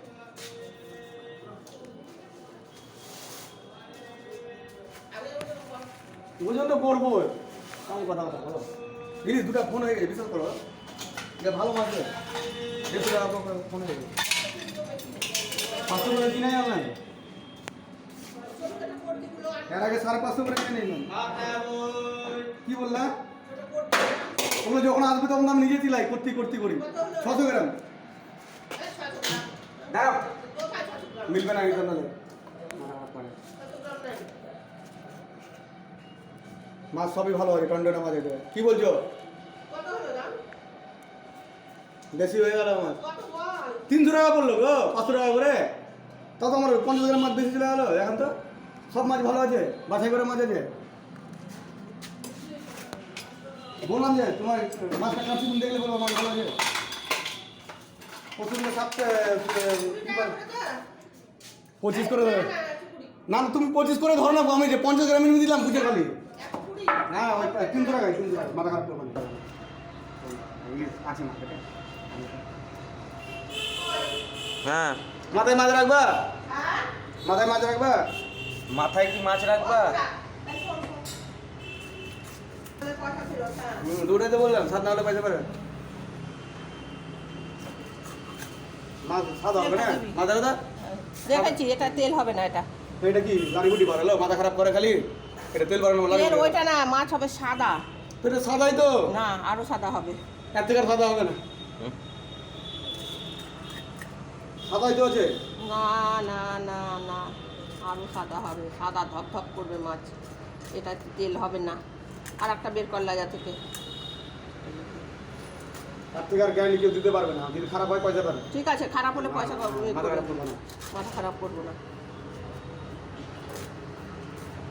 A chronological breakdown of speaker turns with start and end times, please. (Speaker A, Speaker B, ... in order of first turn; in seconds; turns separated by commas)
Speaker A: 5.1-5.8, Speaker B: 6.4-7.3, Speaker B: 7.9-8.7, Speaker B: 9.2-10.6, Speaker B: 11.4-12.1, Speaker B: 12.9-14.1, Speaker A: 14.5-15.9, Speaker B: 15.9-16.9, Speaker A: 18.4-19.9, Speaker B: 19.7-21.1, Speaker C: 21.1-22.5, Speaker B: 22.6-23.1, Speaker A: 23.5-24.3, Speaker B: 24.6-27.8, Speaker A: 26.8-27.5, Speaker A: 28.8-31.9, Speaker B: 29.9-30.2, Speaker B: 31.3-32.1, Speaker B: 32.7-33.4, Speaker A: 33.6-34.5, Speaker B: 36.9-39.0, Speaker A: 39.7-40.4, Speaker B: 42.1-43.0, Speaker A: 43.0-43.8, Speaker B: 43.9-45.7, Speaker B: 46.4-48.3, Speaker B: 48.9-50.7, Speaker B: 53.8-56.5, Speaker B: 58.4-60.4, Speaker A: 59.9-60.8, Speaker B: 61.8-62.5, Speaker A: 61.9-63.1, Speaker B: 63.3-66.2, Speaker A: 66.3-68.5, Speaker B: 67.1-69.5, Speaker B: 70.2-72.4, Speaker C: 74.6-75.0, Speaker B: 75.3-76.2, Speaker A: 76.5-76.9, Speaker B: 77.2-78.1, Speaker C: 78.7-80.0, Speaker A: 79.5-81.0, Speaker A: 82.8-83.8, Speaker B: 83.8-85.5, Speaker B: 89.0-90.6, Speaker A: 89.5-90.2, Speaker A: 90.9-92.7, Speaker B: 91.3-92.0, Speaker B: 93.0-96.5, Speaker A: 96.1-97.8, Speaker B: 98.2-99.0, Speaker A: 99.1-100.2, Speaker B: 100.5-101.4, Speaker B: 104.7-105.3, Speaker A: 105.6-110.1, Speaker A: 110.7-111.8, Speaker A: 112.4-113.6, Speaker B: 116.1-118.5, Speaker A: 118.5-121.8, Speaker B: 119.2-120.6